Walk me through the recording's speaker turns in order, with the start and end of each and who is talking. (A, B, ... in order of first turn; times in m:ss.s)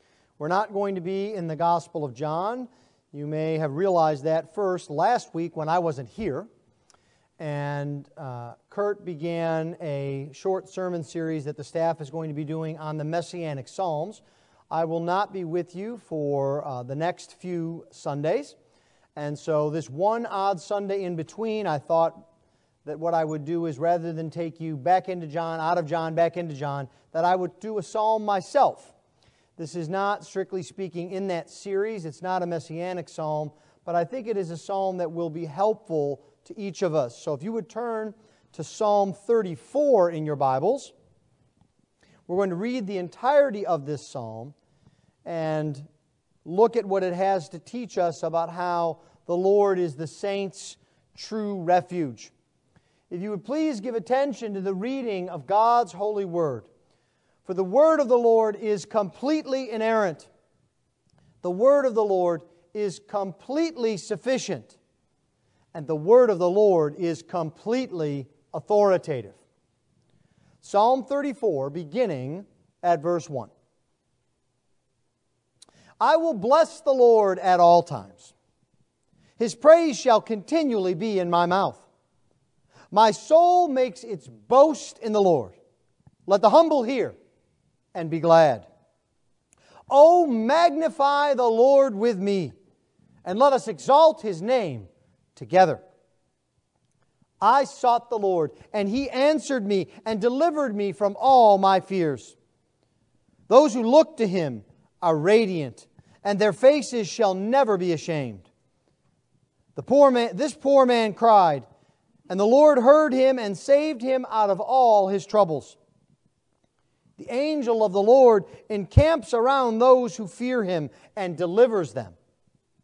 0:00.4-0:06.5 A
0:07.4-0:18.5 A
0:19.2-0:22.2 A
0:22.8-0:28.9 A
0:29.6-0:40.9 A
0:42.3-0:44.5 A
0:45.2-0:45.8 A
0:46.4-0:52.3 A
0:53.1-0:56.7 A
0:57.4-1:00.3 A
1:01.4-1:04.8 A
1:05.7-1:09.4 A
1:10.6-1:13.5 A
1:16.0-1:18.3 A
1:19.4-1:21.8 A
1:22.9-1:25.6 A
1:26.3-1:27.2 A
1:27.9-1:28.7 A
1:29.9-1:32.5 A
1:33.2-1:35.8 A
1:37.4-1:42.3 A
1:43.5-1:48.5 A
1:49.7-1:51.6 A
1:52.3-1:55.8 A
1:57.2-2:02.2 A